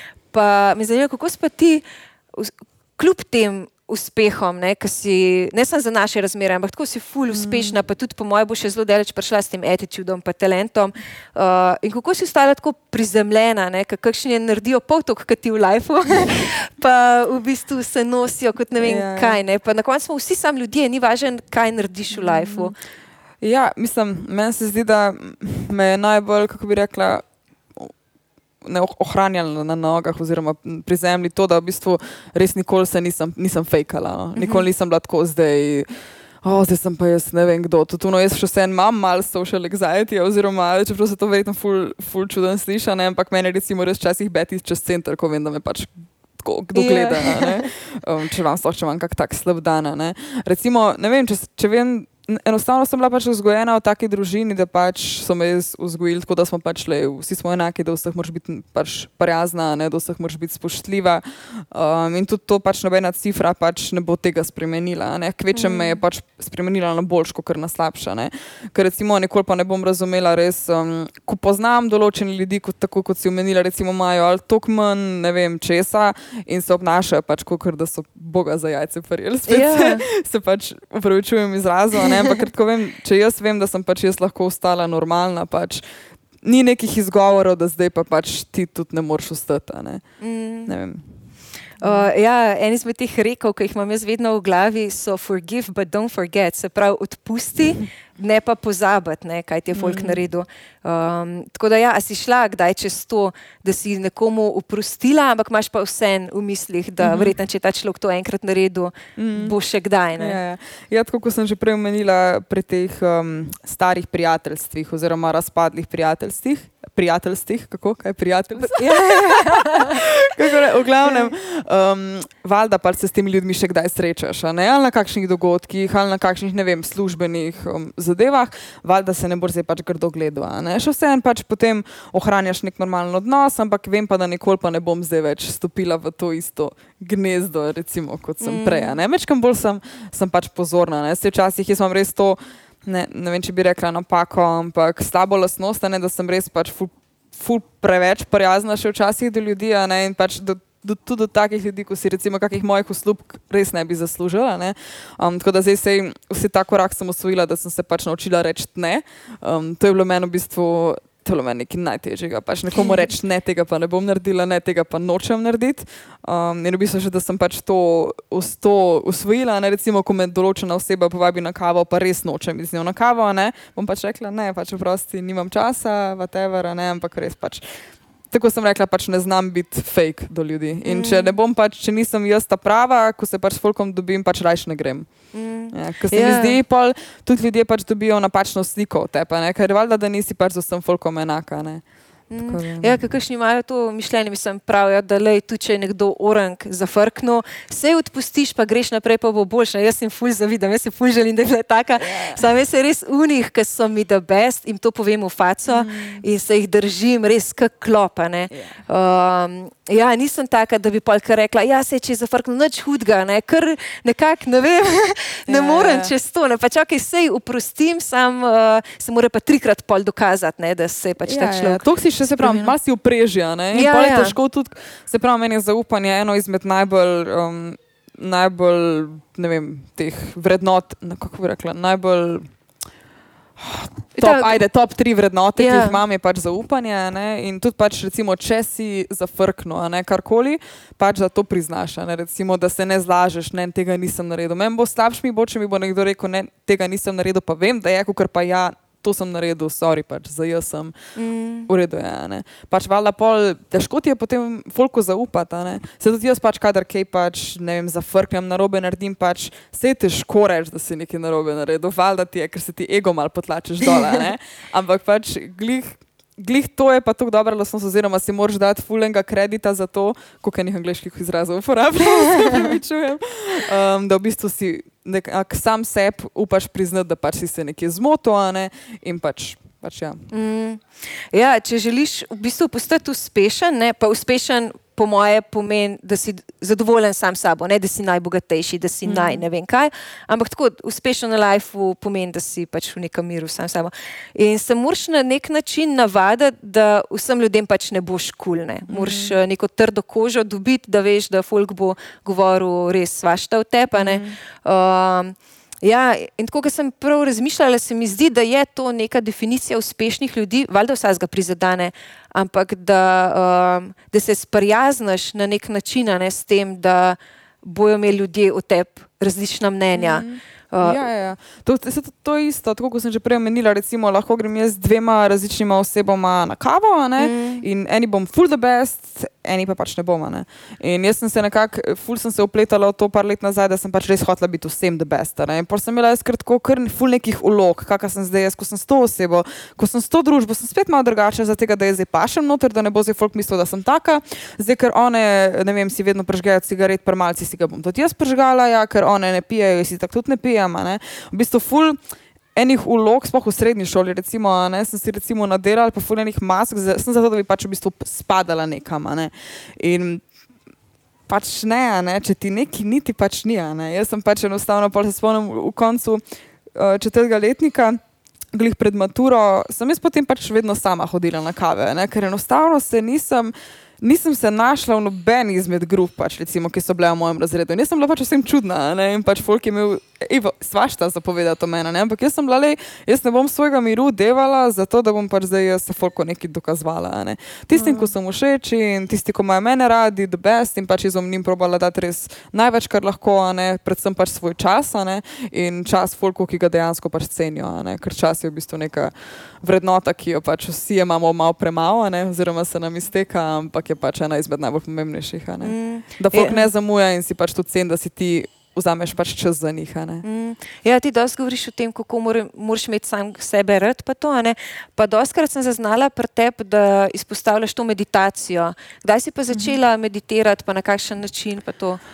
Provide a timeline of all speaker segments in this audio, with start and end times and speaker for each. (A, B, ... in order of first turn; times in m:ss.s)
0:00.3-0:22.8 A
0:07.3-0:07.8 B
0:18.8-0:19.4 B
0:22.1-0:22.7 B
0:23.4-0:27.2 B
0:28.6-0:35.9 B
0:34.4-0:34.7 A
0:36.4-1:25.8 B
0:46.8-0:47.6 A
1:05.5-1:06.0 A
1:19.5-1:20.0 A
1:26.4-1:30.0 B
1:30.2-1:30.7 A
1:30.7-1:31.0 B
1:31.8-1:32.1 B
1:31.8-1:50.4 A
1:39.8-1:40.2 B
1:47.0-1:47.4 B
1:49.2-1:49.6 B
1:50.2-2:57.6 B
1:58.6-2:00.0 A
2:01.0-2:01.3 A
2:18.4-2:19.0 A
2:58.3-3:05.1 B
3:00.9-3:01.3 A
3:05.3-3:06.6 A
3:05.7-3:11.8 B
3:12.3-3:42.7 A
3:12.4-3:13.1 B
3:22.0-3:22.4 B
3:25.7-3:26.2 B
3:35.5-3:36.1 B
3:41.2-3:52.5 B
3:43.7-3:44.4 A
3:53.6-4:11.0 B
3:54.2-3:54.6 A
3:55.6-3:56.0 A
4:11.2-4:11.7 A
4:11.7-4:40.3 B
4:40.3-5:21.0 A
4:49.1-4:49.4 B
4:58.9-4:59.4 B
5:04.0-5:04.4 B
5:20.0-5:52.0 B
5:27.2-5:27.6 A
5:52.6-6:00.2 B
6:01.3-6:06.2 B
6:06.7-6:08.0 B
6:08.5-6:50.2 B
6:27.8-6:28.1 A
6:45.6-6:46.7 A
6:50.2-7:02.0 A